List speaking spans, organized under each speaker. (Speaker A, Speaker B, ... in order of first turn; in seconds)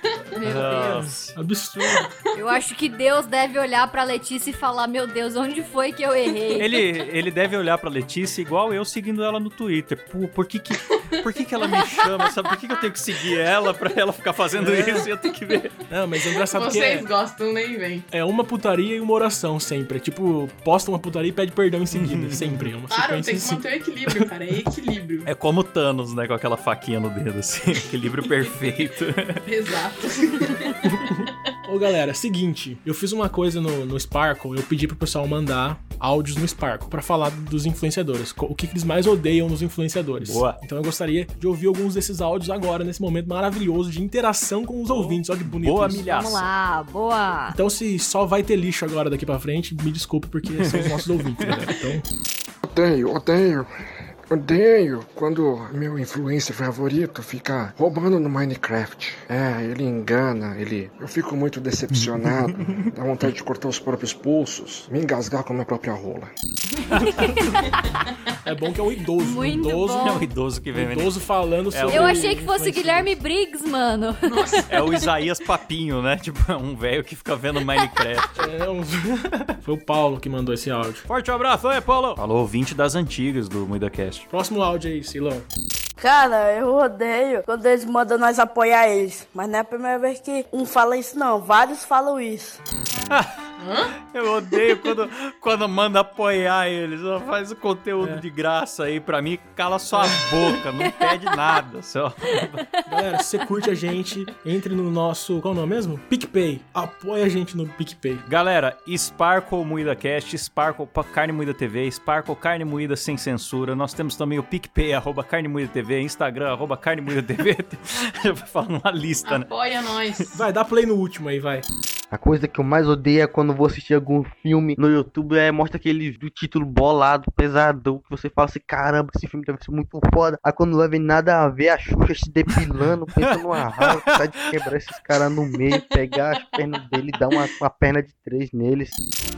Speaker A: 0.1-2.1, 14.5-15.1, 15.9-17.1, 18.1-24.2, 30.9-46.0, 47.5-52.0, 68.4-73.1, 78.4-81.0, 84.3-85.5, 100.0-100.4, 102.8-108.2, 120.3-121.6
Speaker B: 0.3-1.1, 2.3-6.7, 45.9-47.6, 66.8-67.8, 69.2-70.3, 71.9-74.7
Speaker C: 0.4-2.0, 6.6-15.7, 21.9-22.6, 25.2-29.4, 40.2-40.6, 44.9-46.4, 50.6-51.7, 61.9-62.9, 70.0-71.2, 71.7-72.3, 74.7-78.5, 81.1-84.3, 93.1-93.4, 94.0-102.6, 108.2-119.5, 133.2-134.7
Speaker D: 16.5-18.1, 22.9-25.3, 29.4-30.9, 74.2-75.0, 93.6-93.9, 119.2-120.3
Speaker E: 52.6-53.7, 54.3-66.3
Speaker F: 86.0-92.6
Speaker G: 122.1-138.9